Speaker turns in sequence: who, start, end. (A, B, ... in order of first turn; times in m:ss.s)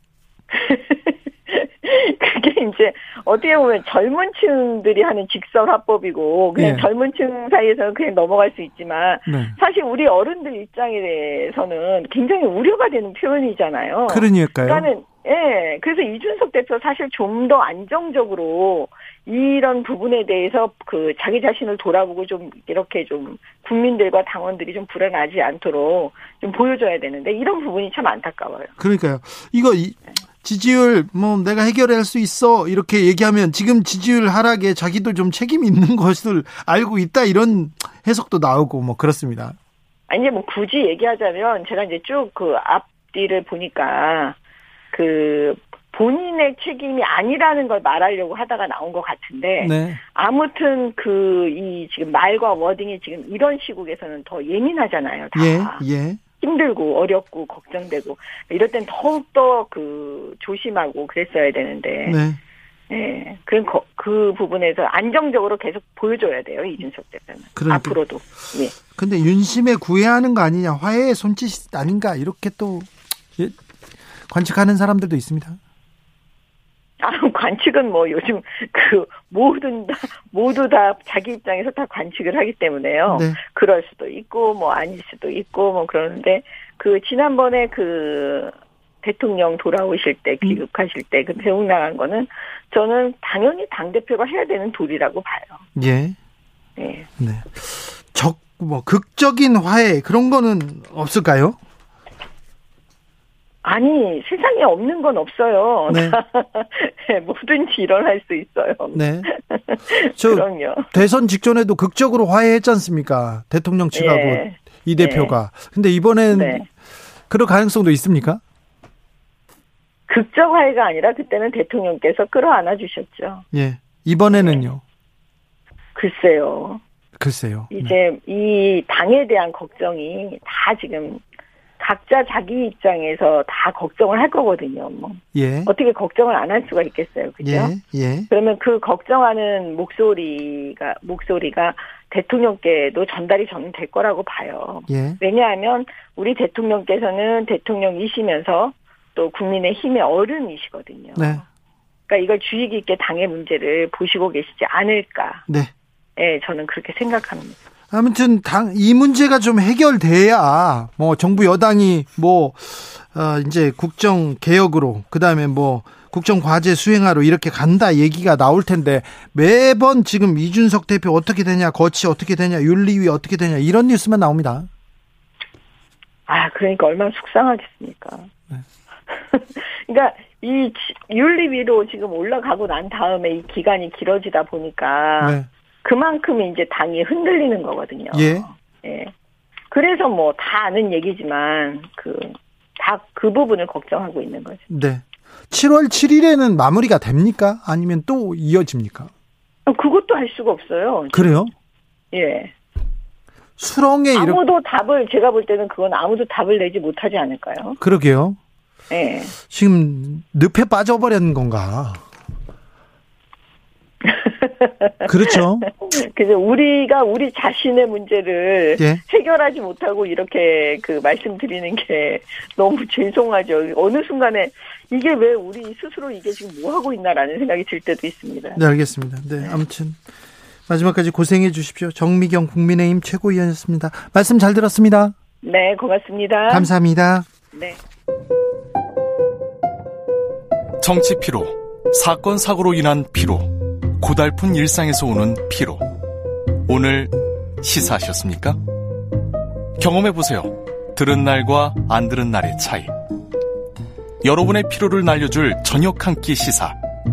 0:00.5-0:28.7 A
0:06.6-0:06.9 B
0:09.3-0:09.6 B
0:14.1-0:14.9 B
0:28.8-0:39.6 B
0:40.1-0:44.4 A
0:44.9-0:55.8 A
0:49.6-0:50.0 B
0:55.3-0:56.2 B
0:56.4-1:02.2 A
1:02.1-1:02.4 B
1:02.9-1:08.8 A
1:07.6-1:08.0 B
1:08.9-1:13.6 B
1:14.3-1:15.6 B
1:17.0-1:35.6 A
1:23.1-1:23.4 B
1:35.8-1:36.2 B
1:36.8-1:37.1 A
1:37.2-1:41.6 B
1:43.6-1:50.9 A
1:45.9-1:46.2 B
1:49.0-1:49.3 B
1:50.2-1:56.6 B
1:53.9-1:55.4 A
1:56.3-1:56.6 A
1:57.3-1:58.4 B
2:00.1-2:03.4 A
2:03.5-2:04.8 B
2:04.3-2:04.6 A
2:06.0-2:06.8 A
2:07.2-2:08.0 B
2:07.7-2:11.2 A
2:11.8-2:17.8 A
2:15.4-2:15.7 B
2:17.4-2:18.3 B
2:18.3-2:31.4 A
2:24.9-2:25.2 B
2:31.2-2:31.4 B
2:32.1-2:35.4 A
2:36.2-2:37.6 A
2:37.9-2:54.7 B
2:56.3-2:58.3 A
2:59.1-3:09.1 A
3:05.2-3:05.5 B
3:08.1-3:08.5 B
3:09.7-3:14.6 A
3:14.7-3:19.1 B
3:19.7-3:21.4 A
3:21.1-3:21.5 B
3:22.1-3:22.5 A
3:23.6-3:24.4 B
3:24.2-3:27.8 A
3:27.8-3:28.4 B
3:28.9-3:29.4 A
3:29.5-3:32.0 B
3:34.0-3:48.6 A
3:35.0-3:35.7 B
3:48.6-3:50.0 B
3:50.7-3:55.1 B
3:55.4-3:56.7 A
3:56.5-3:57.3 B
3:57.5-3:57.8 A
4:00.8-4:05.8 C
4:06.7-4:08.6 C
4:09.8-4:12.9 C
4:14.2-4:16.8 C